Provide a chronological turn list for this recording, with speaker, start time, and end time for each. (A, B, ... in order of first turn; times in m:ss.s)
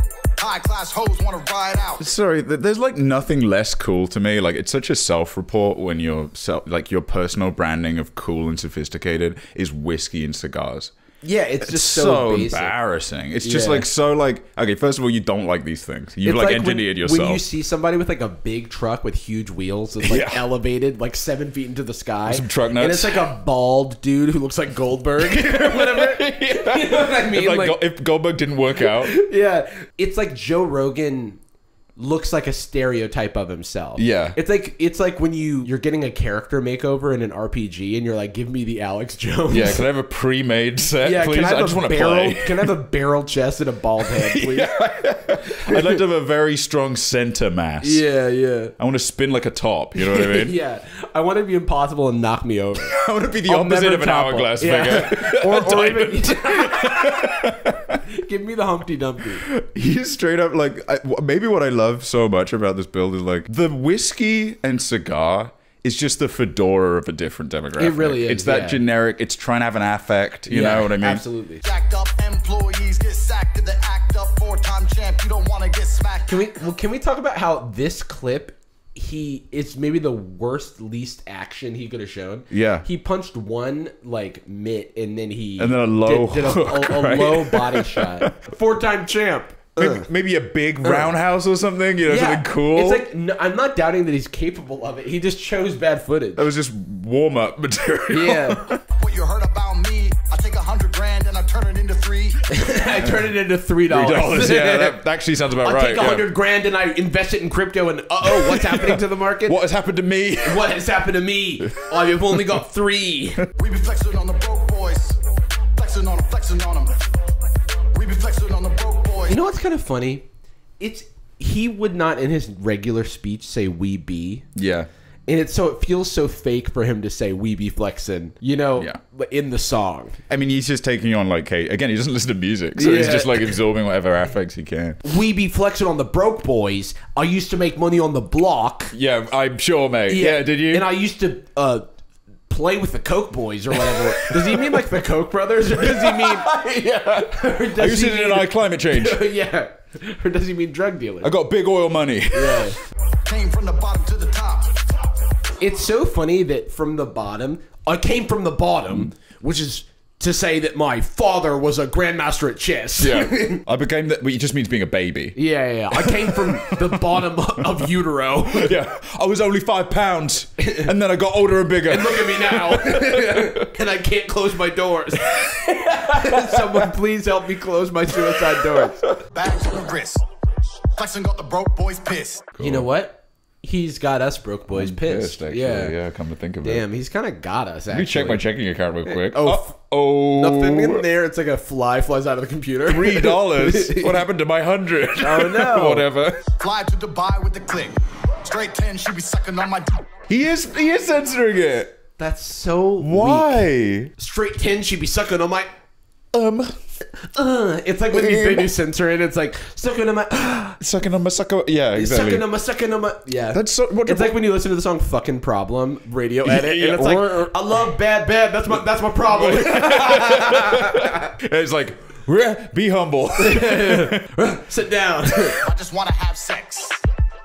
0:00.4-0:02.0 A
0:02.0-0:10.9 B
0:11.2-0:12.7 C
0:11.6-0:17.4 B
0:13.4-0:13.9 C
0:16.2-0:27.8 C
0:20.0-0:20.4 B
0:22.3-0:23.2 B
0:25.2-0:29.1 B
0:28.8-0:31.4 C
0:32.0-0:39.9 C
0:34.0-0:34.4 B
0:39.5-0:42.7 B
0:41.0-0:44.8 C
0:44.0-0:48.0 B
0:45.5-0:46.0 C
0:47.8-0:48.7 C
0:48.8-0:50.6 B
0:50.0-0:52.9 C
0:52.8-0:58.0 B
0:53.4-0:57.5 C
0:58.1-0:59.4 C
0:59.4-1:11.2 B
1:07.8-1:08.8 C
1:10.5-1:11.6 C
1:11.6-1:16.3 A
1:16.3-1:30.1 C
1:22.5-1:22.8 B
1:25.6-1:28.3 B
1:29.8-1:33.0 B
1:30.8-1:31.2 C
1:32.0-1:36.5 C
1:36.4-1:38.8 B
1:38.1-1:38.6 C
1:38.8-1:42.4 A
1:42.5-1:45.0 C
1:43.9-1:46.3 B
1:45.6-1:49.6 C
1:48.2-1:50.8 B
1:50.4-1:53.4 C
1:53.6-1:55.2 A
1:55.8-1:57.0 A
1:57.9-1:59.4 A
1:59.3-2:00.2 C
2:00.8-2:04.4 C
2:04.5-2:04.9 B
2:05.3-2:10.2 C
2:10.3-2:15.0 B
2:12.8-2:13.6 C
2:15.0-2:18.9 C
2:18.9-2:20.8 B
2:20.1-2:21.8 C
2:22.5-2:31.3 C
2:23.7-2:24.8 B
2:25.8-2:29.2 B
2:31.2-2:32.7 B
2:32.3-2:32.8 C
2:33.2-2:34.8 A
2:35.6-2:43.6 C
2:43.0-2:45.4 B
2:45.3-2:48.7 C
2:45.9-2:47.2 B
2:48.4-2:53.6 B
2:50.6-2:50.9 C
2:51.8-2:59.0 C
2:56.0-2:56.9 B
2:58.2-2:58.9 B
2:59.3-3:00.2 A
3:01.0-3:02.5 A
3:02.6-3:02.9 B
3:02.6-3:05.9 C
3:04.7-3:06.8 B
3:06.6-3:08.4 C
3:07.9-3:11.0 B
3:09.0-3:14.2 C
3:12.8-3:16.4 B
3:15.2-3:16.1 C
3:16.6-3:20.0 A
3:20.3-3:21.9 B
3:22.2-3:25.7 C
3:23.0-3:24.1 B
3:26.3-3:26.8 B
3:27.2-3:30.8 C
3:28.1-3:28.7 B
3:30.8-3:32.4 B
3:31.9-3:41.3 C
3:33.5-3:34.4 B
3:36.4-3:37.5 B
3:39.2-3:44.3 B
3:43.4-3:45.6 C
3:45.6-3:47.0 A